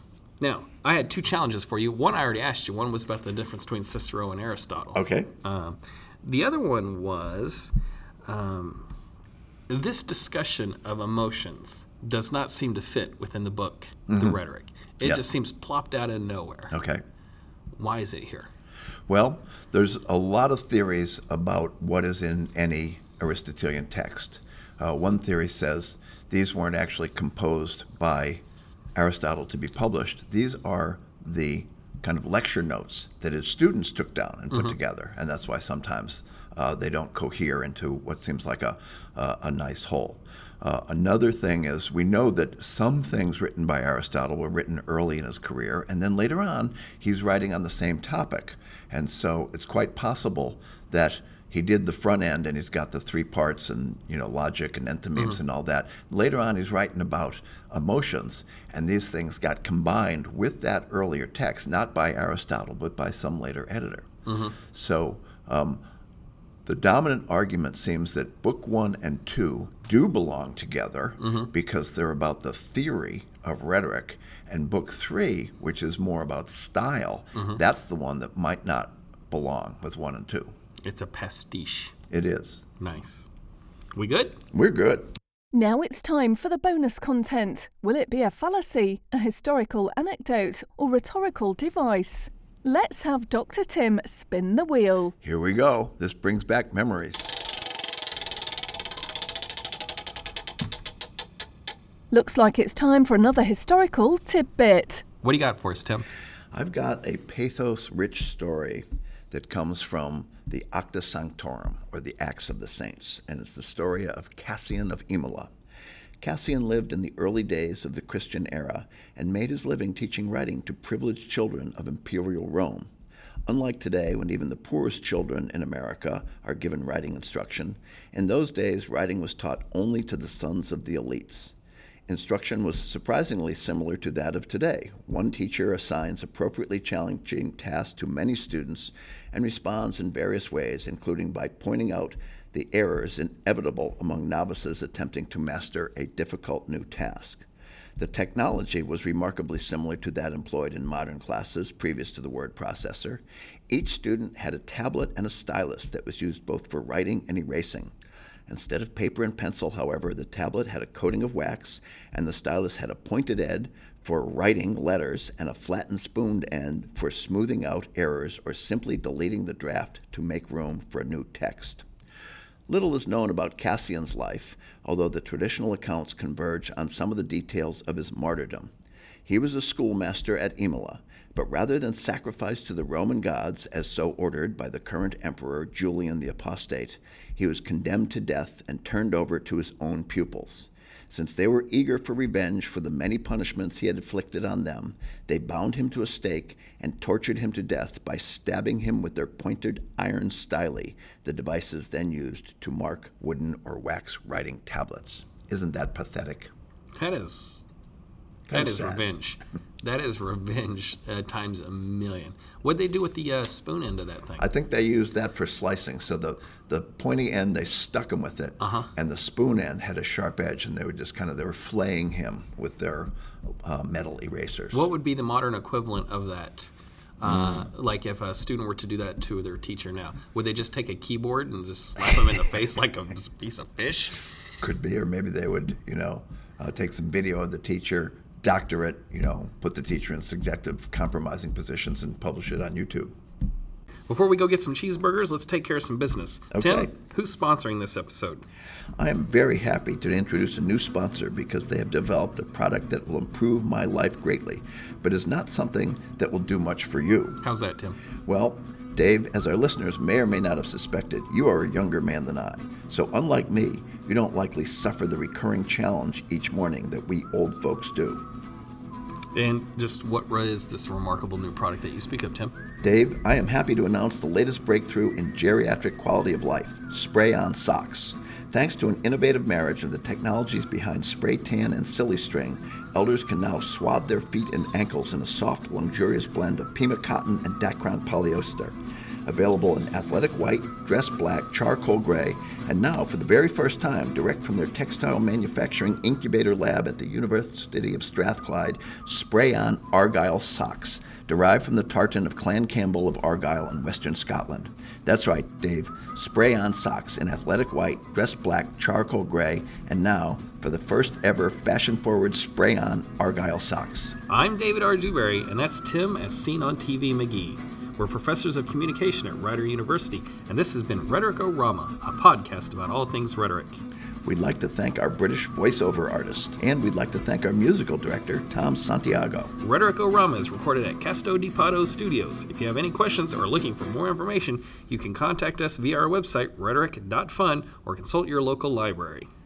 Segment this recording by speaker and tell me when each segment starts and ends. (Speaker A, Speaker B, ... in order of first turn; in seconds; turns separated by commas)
Speaker A: 0.4-7.7, Speaker B: 4.9-5.3, Speaker A: 8.3-8.9, Speaker A: 9.7-16.7, Speaker B: 14.1-14.4, Speaker B: 16.7-17.0, Speaker A: 17.8-18.5, Speaker B: 19.1-28.4, Speaker B: 28.9-65.8, Speaker A: 64.3-64.6, Speaker B: 66.6-80.5, Speaker A: 71.2-71.5, Speaker A: 77.3-77.6, Speaker A: 80.8-81.9, Speaker B: 82.1-82.7, Speaker A: 82.8-83.3, Speaker A: 83.9-84.4, Speaker B: 84.5-85.1, Speaker C: 85.5-95.1, Speaker B: 95.2-97.4, Speaker C: 102.1-105.0, Speaker A: 105.2-106.1, Speaker B: 106.5-115.5, Speaker B: 116.2-122.9, Speaker B: 123.5-131.5, Speaker B: 132.1-147.4, Speaker B: 148.0-157.9, Speaker B: 158.5-171.8, Speaker B: 172.7-178.7, Speaker B: 179.3-206.5, Speaker A: 206.9-207.6, Speaker B: 208.5-209.0, Speaker A: 208.5-214.5, Speaker B: 214.4-224.9, Speaker A: 218.6-218.9, Speaker A: 224.7-234.2, Speaker B: 227.2-227.7, Speaker B: 234.6-243.1, Speaker A: 244.1-248.4, Speaker B: 246.5-246.9, Speaker B: 248.9-257.4, Speaker A: 257.4-258.0, Speaker B: 258.3-268.2, Speaker A: 269.3-272.6, Speaker B: 272.8-314.1, Speaker A: 314.3-323.8, Speaker B: 324.2-329.5, Speaker A: 329.6-339.3